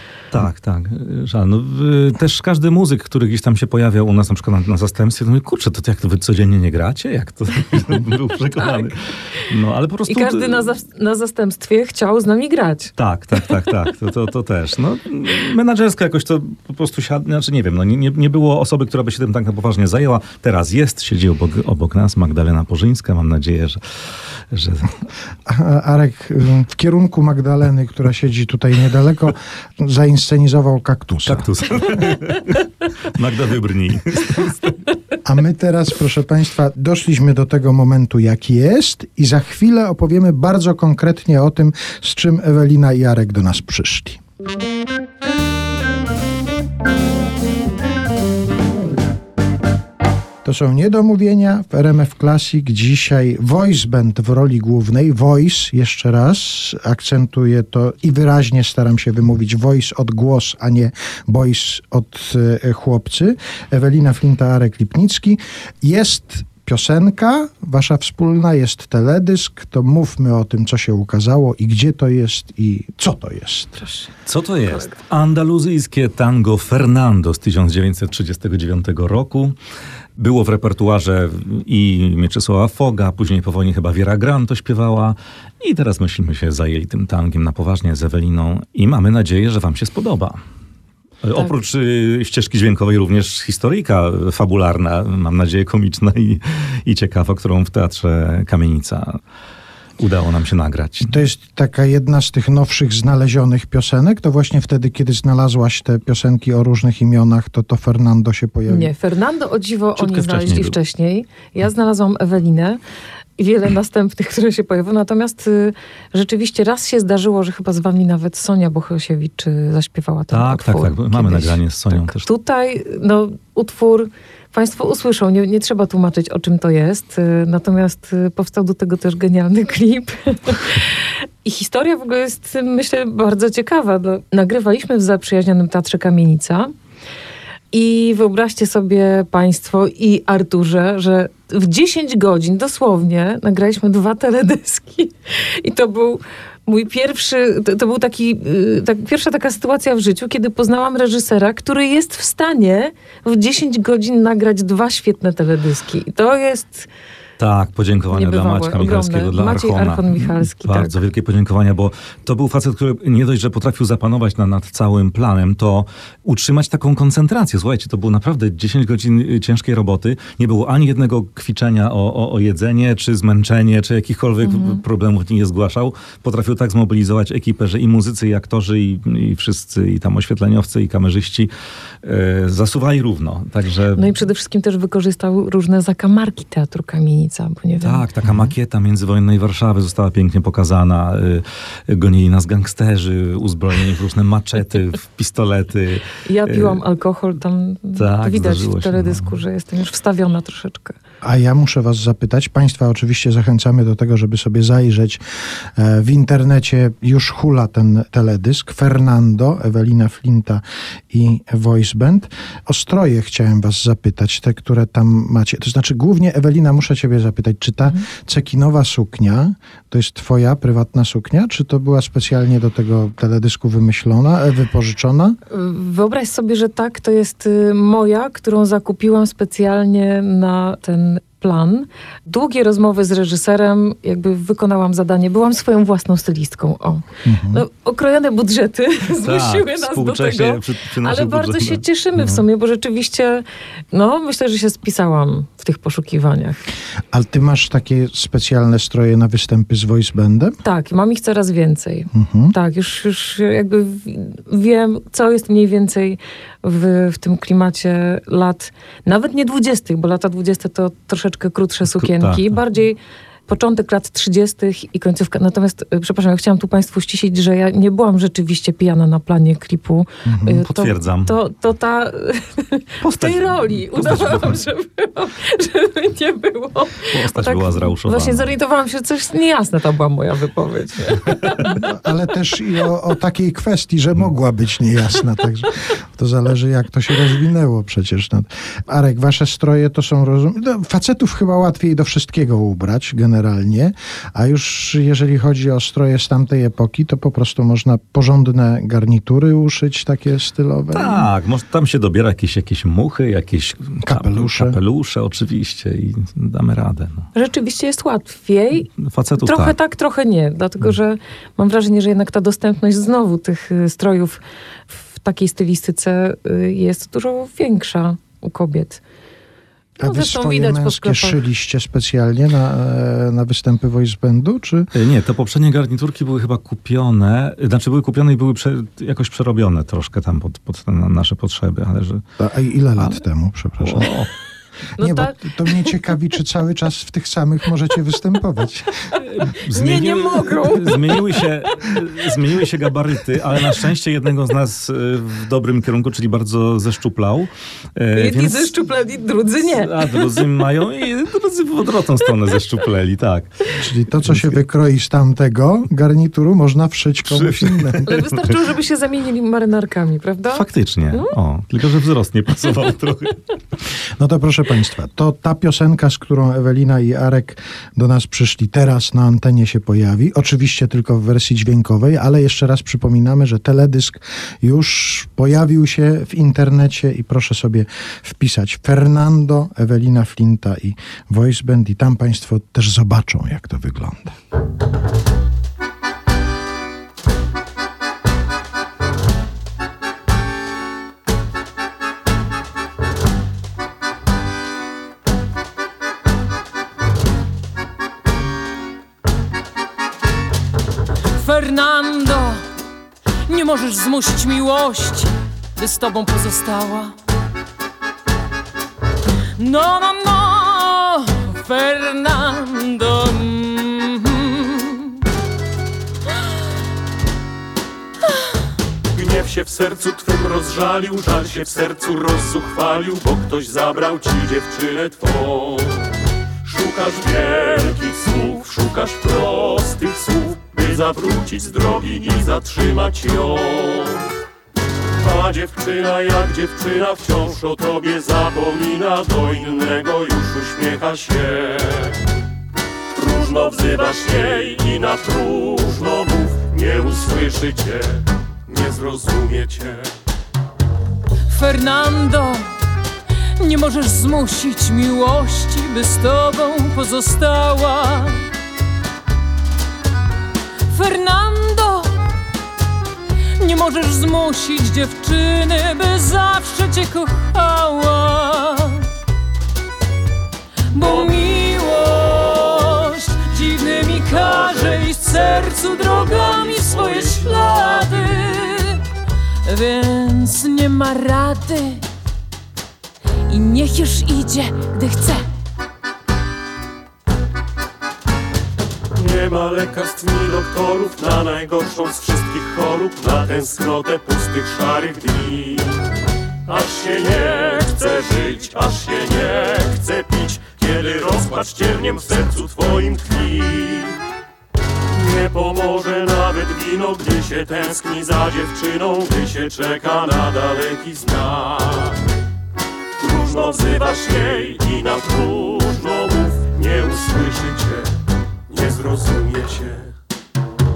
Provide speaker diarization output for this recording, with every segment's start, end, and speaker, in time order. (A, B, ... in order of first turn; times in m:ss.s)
0:00.3-0:10.7 A
0:10.1-0:12.9 B
0:13.0-0:23.8 A
0:24.5-0:25.0 A
0:25.5-0:31.5 C
0:31.3-0:34.8 A
0:35.2-0:44.2 C
0:50.4-1:13.8 C
1:13.8-1:14.1 B
1:14.3-1:19.6 A
1:20.2-1:30.4 A
1:31.2-1:39.2 A
1:40.0-1:41.2 A
1:41.0-1:48.9 C
1:48.7-1:52.8 B
1:50.0-1:50.8 A
1:53.4-2:16.7 B
2:00.3-2:02.3 A
2:17.7-2:36.9 B
2:37.4-3:01.5 A
2:38.1-2:41.0 B
2:54.4-2:54.8 B
3:02.0-3:04.2 A
3:04.0-3:08.0 B
3:07.8-3:16.8 A
3:16.3-3:21.0 B
3:18.0-3:19.3 A
3:21.2-3:45.4 C
3:45.5-4:06.6 B
3:57.2-3:57.6 C
3:59.2-4:02.4 A
4:07.1-4:10.6 C
4:10.6-4:41.7 B
4:12.1-4:12.5 C
4:21.9-4:22.6 A
4:30.2-4:30.6 C
4:30.6-4:31.3 A
4:33.0-4:34.6 A
4:37.1-4:38.5 A
4:41.6-5:01.3 C
5:00.9-5:07.3 A
5:04.0-5:04.8 C
5:07.4-5:08.9 B
5:09.0-5:09.8 A
5:09.4-5:19.0 B
5:20.0-5:24.9 C
5:20.0-5:21.4 B
5:24.9-5:32.2 A
5:32.4-5:34.2 C
5:33.8-5:34.3 A
5:35.0-5:36.0 B
5:35.0-5:39.1 C
5:39.2-5:42.0 B
5:39.2-5:48.8 A
5:48.2-5:50.4 B
5:49.7-5:53.5 A
5:53.8-5:58.2 C
5:54.3-5:54.6 A
5:57.3-5:58.4 A
5:58.1-6:01.3 B
6:00.5-6:03.4 A
6:04.2-6:24.4 C
6:41.3-6:42.6 D
6:43.5-6:47.1 D
6:49.6-6:55.1 D
6:59.1-7:06.0 E
7:06.6-7:14.2 E
7:15.2-7:22.2 E
7:23.2-7:30.1 E
7:31.5-7:32.7 D
7:33.6-7:38.4 D
7:40.9-7:42.1 D
7:43.6-7:49.0 D
7:50.9-7:59.0 D
7:54.4-7:55.5 E
7:56.2-7:58.2 E
7:59.7-8:02.0 D
8:03.5-8:05.5 D
8:09.2-8:15.9 E
8:16.7-8:24.1 E
8:25.1-8:32.2 E
8:33.2-8:38.1 E
8:38.7-8:40.1 E